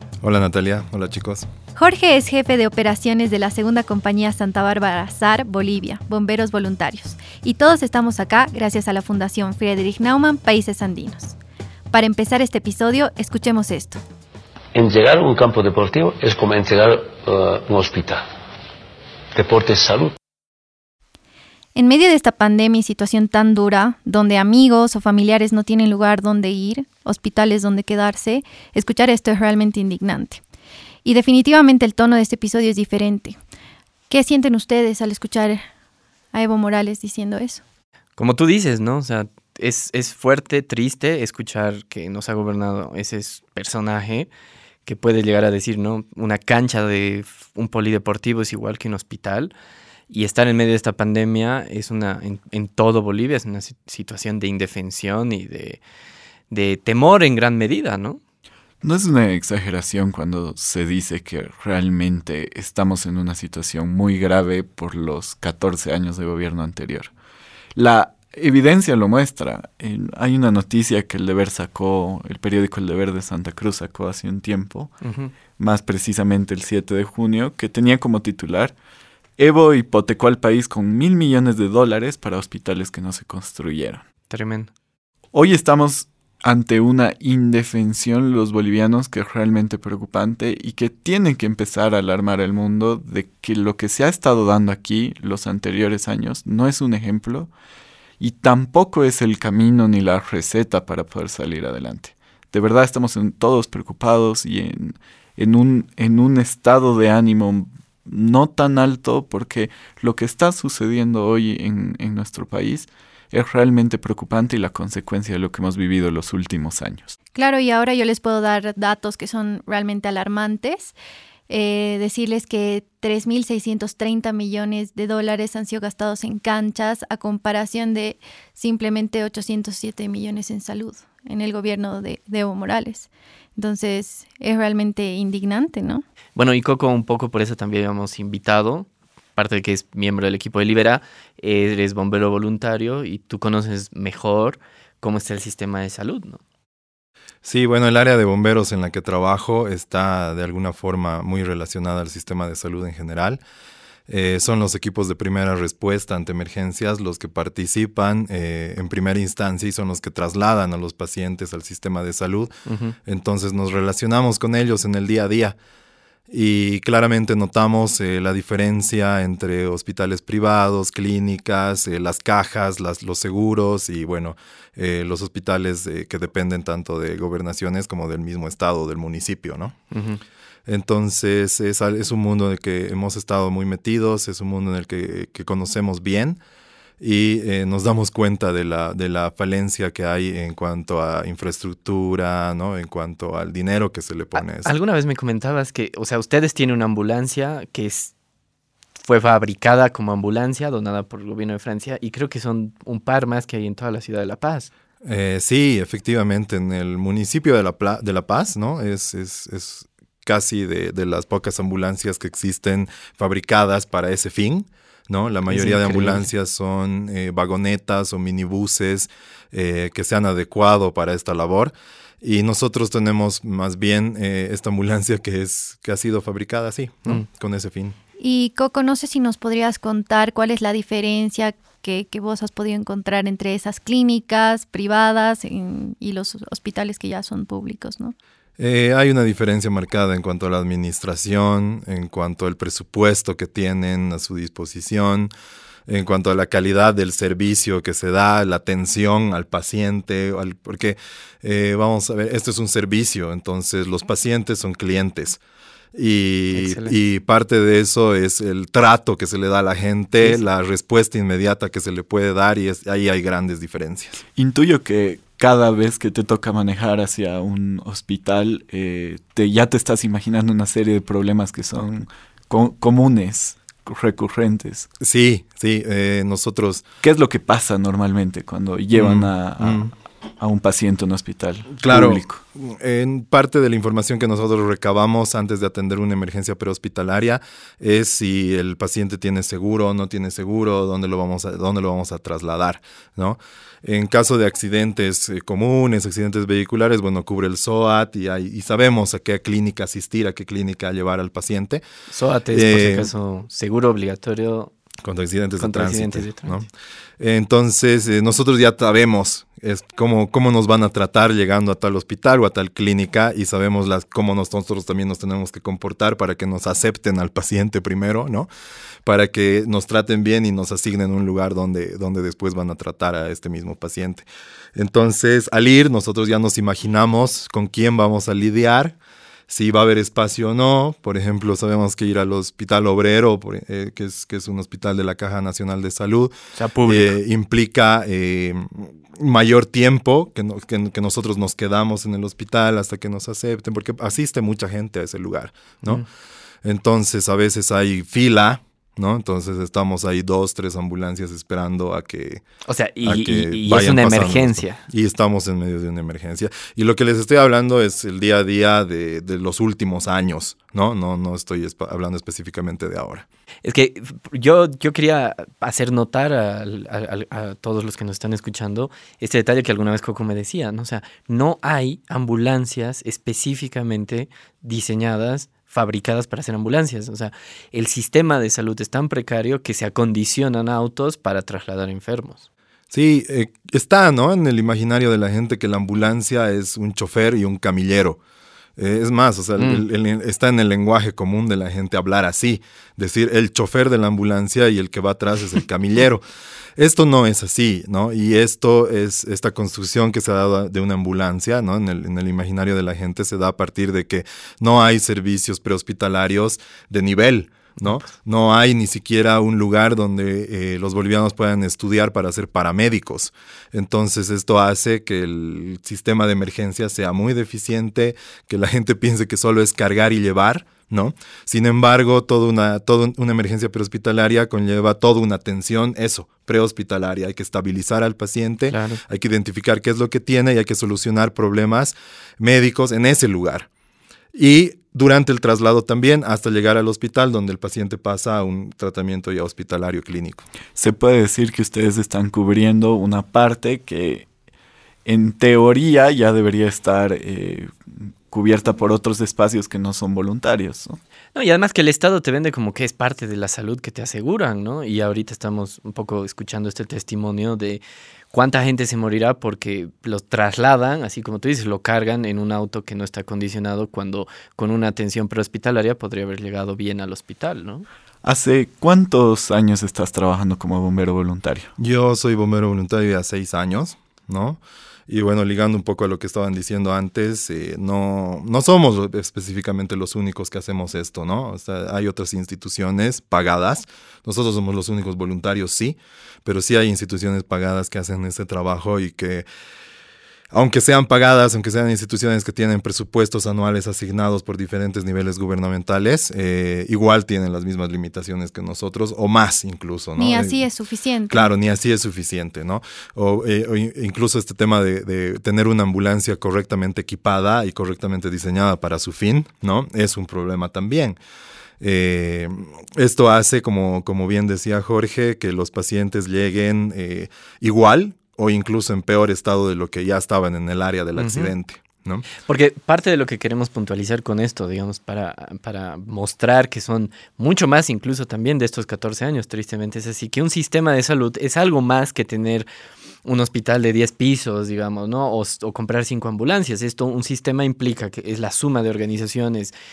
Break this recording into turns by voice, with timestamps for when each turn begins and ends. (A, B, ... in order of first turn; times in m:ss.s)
0:00.2-0:01.5 A
0:01.8-0:11.4 B
0:11.9-0:14.0 B
0:14.7-0:18.2 C
0:19.3-0:20.2 C
0:21.7-0:30.4 B
0:31.0-0:33.4 B
0:34.1-0:35.6 B
0:36.3-0:37.6 B
0:38.2-0:44.3 D
0:44.8-0:49.5 D
0:50.1-0:55.8 D
0:56.5-0:58.2 D
0:58.8-1:07.1 E
1:07.7-1:14.9 E
1:15.0-1:15.3 D
1:15.6-1:18.7 E
1:19.4-1:24.0 E
1:24.3-1:24.7 D
1:25.3-1:37.5 E
1:38.2-1:57.1 E
1:57.3-2:00.9 B
2:01.5-2:16.0 B
2:16.4-2:26.4 D
2:27.4-2:33.4 A
2:34.1-2:42.5 A
2:42.7-2:43.0 D
2:43.0-2:45.6 A
2:46.3-2:59.7 A
2:59.9-3:00.2 D
3:00.7-3:06.4 A
3:07.0-3:14.7 A
3:14.5-3:18.1 D
3:19.0-3:24.7 D
3:25.0-3:48.0 A
3:35.5-3:36.3 D
3:48.2-3:58.1 B
3:58.6-4:05.3 A
4:05.9-4:15.4 A
4:15.9-4:24.2 A
4:16.5-4:17.0 D
4:24.4-4:34.9 E
4:35.0-4:36.8 A
4:37.0-4:42.4 E
4:38.9-4:39.9 A
4:41.8-5:01.8 A
5:02.1-5:04.7 D
5:02.5-5:03.1 A
5:05.0-5:06.7 A
5:05.6-5:06.6 D
5:07.2-5:18.5 A
5:19.0-5:28.9 A
5:29.5-5:36.3 A
5:36.5-5:37.1 D
5:36.8-5:46.0 A
5:46.6-5:52.4 A
5:52.6-5:54.8 D
5:53.0-6:03.2 A
6:03.6-6:22.4 D
6:22.9-6:28.2 A
6:28.8-6:36.2 A
6:29.6-6:29.8 D
6:36.8-7:13.7 A
7:08.7-7:09.0 D
7:14.3-7:20.4 A
7:20.8-7:24.3 E
7:25.0-7:31.0 E
7:31.3-7:37.8 D
7:38.3-7:47.8 D
7:48.2-7:51.7 E
7:51.8-8:09.4 A
8:10.5-8:20.6 A
8:20.2-8:21.4 B
8:21.3-8:31.2 A
8:31.8-8:42.2 A
8:41.2-8:41.5 D
8:42.4-8:52.7 D
8:53.2-8:59.7 D